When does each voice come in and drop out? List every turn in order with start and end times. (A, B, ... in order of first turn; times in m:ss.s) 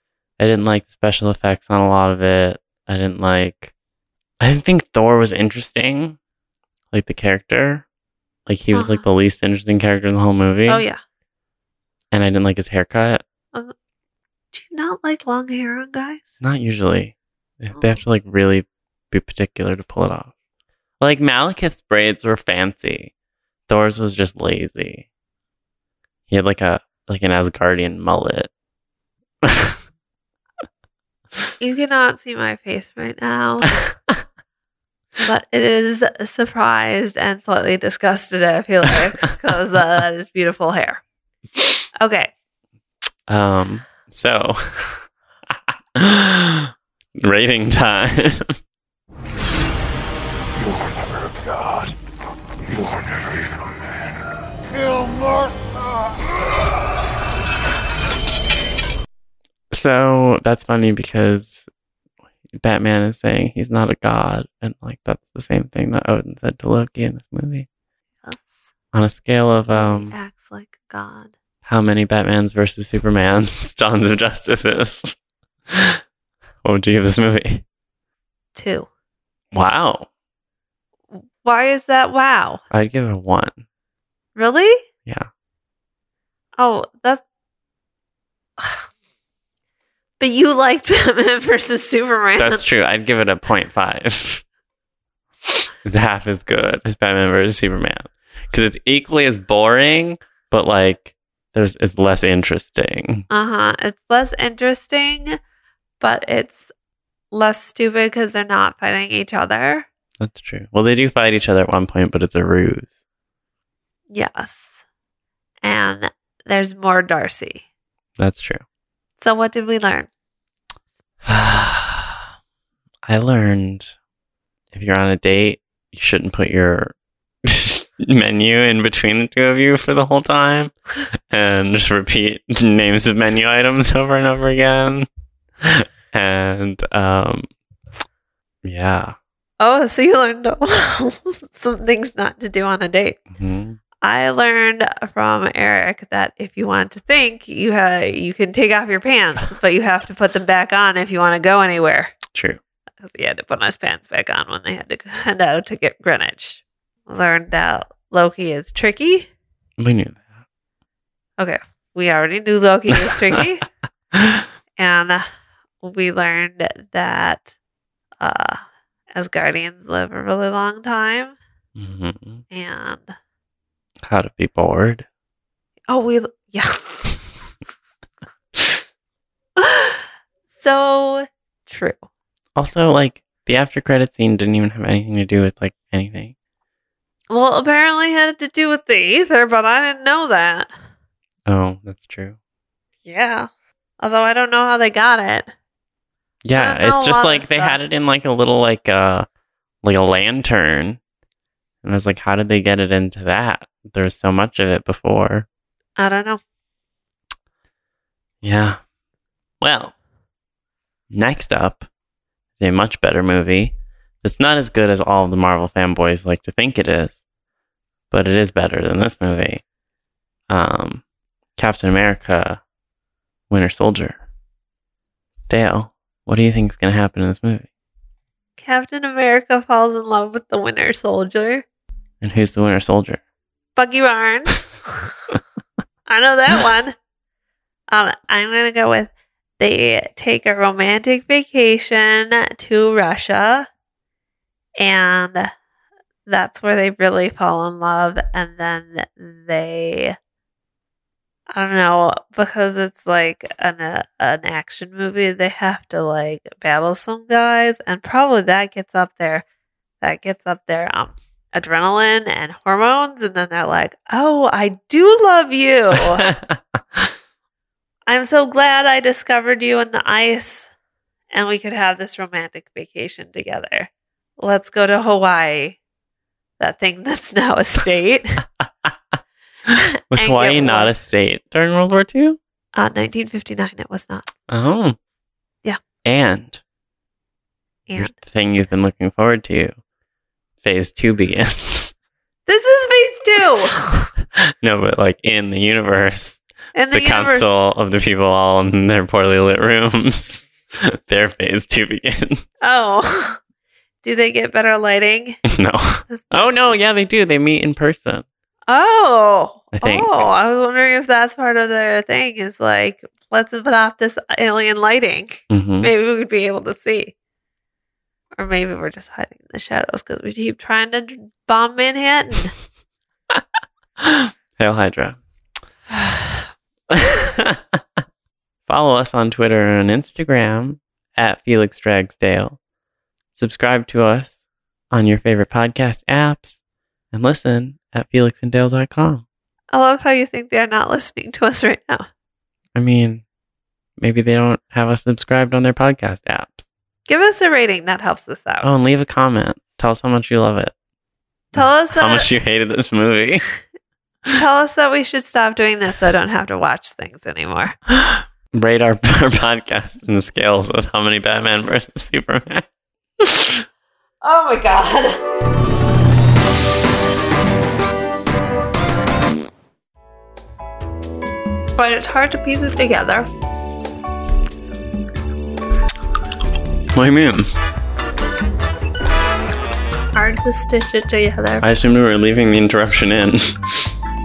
0:00.4-0:03.7 A
0:04.4-0:06.2 A
0:06.9-0:07.8 A
0:08.5-0:10.8 A
0:08.7-0:09.0 B
0:10.7-0:11.0 B
0:12.1-0:13.2 A
0:14.5-0:16.3 B
0:16.4-0:20.3 A
0:21.0-0:23.1 A
0:23.7-0:25.1 A
0:26.3-0:28.5 A
0:29.4-0:29.8 A
0:31.6-0:33.8 B
0:35.2-0:41.0 B
0:42.0-0:42.3 B
0:43.3-0:48.6 A
0:50.7-0:51.9 C
0:52.7-0:54.2 C
0:54.8-0:55.5 C
0:59.7-1:01.7 A
1:02.5-1:07.7 A
1:08.2-1:08.7 B
1:08.9-1:10.1 A
1:09.7-1:11.3 B
1:11.6-1:15.2 A
1:15.7-1:16.0 A
1:16.6-1:17.6 A
1:18.6-1:18.9 B
1:19.5-1:20.1 A
1:21.1-1:22.6 B
1:22.7-1:23.6 A
1:24.4-1:24.8 B
1:26.6-1:27.2 B
1:28.6-1:28.9 B
1:30.2-1:32.6 B
1:32.4-1:34.4 A
1:35.8-1:43.3 A
1:43.3-1:45.4 B
1:46.0-1:46.7 B
1:47.3-1:49.9 B
1:50.2-1:53.0 A
1:54.1-1:54.8 B
1:55.6-1:57.6 B
1:58.2-1:58.6 A
1:59.2-2:00.1 B
2:01.3-2:02.2 A
2:03.1-2:03.9 A
2:04.7-2:06.9 A
2:07.4-2:15.1 A
2:15.6-2:17.5 A
2:18.6-2:19.2 A
2:19.6-2:23.2 B
2:23.4-2:23.8 A
2:24.0-2:32.2 B
2:32.3-2:32.6 A
2:33.0-2:39.3 B
2:39.8-2:40.3 A
2:41.4-2:43.6 B
2:44.2-2:44.4 A
2:44.8-2:45.3 B
2:45.8-2:47.6 B
2:48.2-2:48.6 B
2:49.1-2:51.4 B
2:51.8-2:52.4 A
2:52.5-2:53.2 B
2:54.0-2:55.1 A
2:55.9-2:57.2 B
2:59.6-3:02.0 B
3:02.6-3:06.4 A
3:07.3-3:10.7 B
3:11.5-3:12.4 A
3:13.0-3:13.5 B
3:14.0-3:15.5 B
3:16.4-3:19.3 A
3:16.6-3:17.8 B
3:19.8-3:21.0 A
3:21.8-3:25.5 A
3:26.0-3:26.4 B
3:28.4-3:28.8 A
3:29.6-3:30.0 A
3:31.1-3:31.9 A
3:32.6-3:37.2 A
3:38.1-3:39.6 A
3:40.5-3:41.0 A
3:41.6-3:42.6 A
3:43.5-3:44.2 A
3:45.5-3:47.7 A
3:48.6-3:51.6 B
3:52.2-3:53.2 A
3:53.8-3:55.1 B
3:56.1-3:57.0 B
3:57.9-4:03.7 B
4:04.8-4:05.5 B
4:06.3-4:10.2 B
4:11.5-4:19.4 B
4:20.0-4:26.3 B
4:26.2-4:27.1 A
4:28.1-4:30.7 B
4:31.3-4:35.8 B
4:36.6-4:38.4 B
4:39.7-4:40.9 B
4:40.1-4:42.4 A
4:42.8-4:44.3 B
4:44.5-4:45.0 A
4:46.0-4:46.6 A
4:47.9-4:48.1 B
4:48.0-4:49.8 A
4:50.6-4:51.9 A
4:52.5-4:54.1 B
4:54.4-4:56.4 A
4:56.8-4:57.6 B
4:56.9-5:02.5 A
5:02.6-5:03.4 B
5:04.0-5:05.4 B
5:05.5-5:08.3 A
5:06.1-5:06.8 B
5:08.7-5:17.1 B
5:09.7-5:10.3 A
5:15.5-5:15.9 A
5:18.4-5:22.6 B
5:24.0-5:25.2 A
5:26.9-5:27.8 A
5:28.7-5:32.6 A
5:33.4-5:34.4 A
5:34.9-5:36.6 A
5:37.1-5:39.2 A
5:39.7-5:42.1 B
5:42.8-5:43.2 A
5:44.0-5:46.6 A
5:47.1-5:48.7 B
5:48.6-5:50.7 A
5:51.5-5:52.3 B
5:51.5-5:53.4 A
5:54.3-5:57.8 B
5:57.9-6:02.7 A
6:03.2-6:03.7 A
6:04.2-6:05.2 B
6:11.8-6:13.3 B
6:16.9-6:17.5 A
6:20.1-6:21.6 B
6:21.6-6:23.6 A